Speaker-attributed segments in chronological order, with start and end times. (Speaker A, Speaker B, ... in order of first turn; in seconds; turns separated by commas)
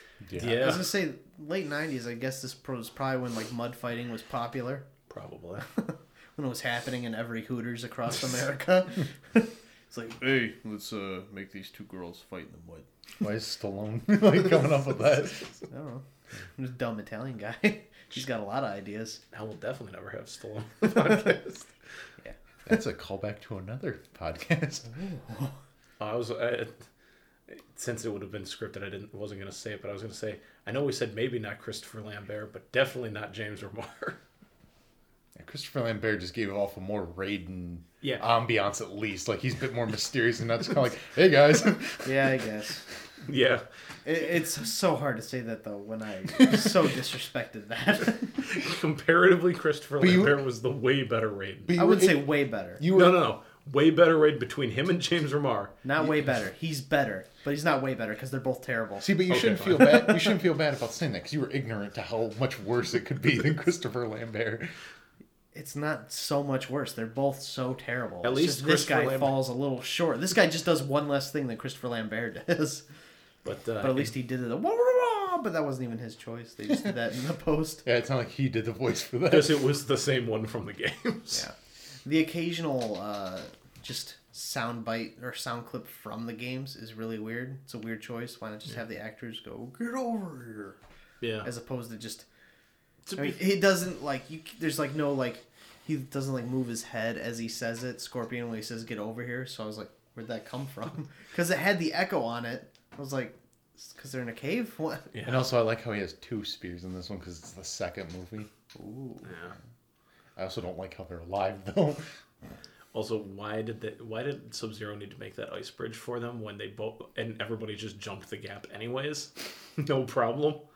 Speaker A: 0.2-0.7, Speaker B: 0.4-0.9, Speaker C: 0.4-4.8, Speaker B: 5.1-5.7, Speaker C: 5.7-12.8, Speaker A: 13.2-15.4, Speaker C: 15.7-16.0, Speaker C: 16.6-19.2, Speaker B: 19.3-21.7, Speaker A: 22.7-24.9, Speaker C: 24.9-25.6, Speaker B: 26.0-26.8, Speaker B: 27.5-34.2, Speaker A: 35.4-42.3, Speaker B: 38.0-38.3, Speaker C: 42.0-42.8, Speaker B: 43.2-43.6, Speaker C: 44.0-48.4, Speaker B: 48.4-51.8, Speaker A: 50.0-50.4, Speaker A: 51.7-53.2, Speaker C: 51.8-52.8, Speaker B: 52.9-55.8, Speaker C: 55.8-59.2, Speaker A: 59.0-64.7, Speaker B: 59.3-60.3, Speaker C: 65.5-72.8, Speaker B: 68.2-69.4, Speaker B: 73.4-74.1, Speaker C: 73.8-77.8, Speaker A: 77.8-79.7, Speaker B: 79.3-81.4, Speaker C: 81.3-90.8, Speaker B: 91.2-91.5, Speaker C: 91.4-92.2, Speaker B: 93.1-93.5, Speaker C: 93.2-105.1, Speaker B: 105.1-105.4, Speaker A: 105.2-108.5, Speaker C: 108.8-109.3, Speaker B: 109.2-109.5, Speaker A: 110.4-112.1, Speaker B: 112.9-120.6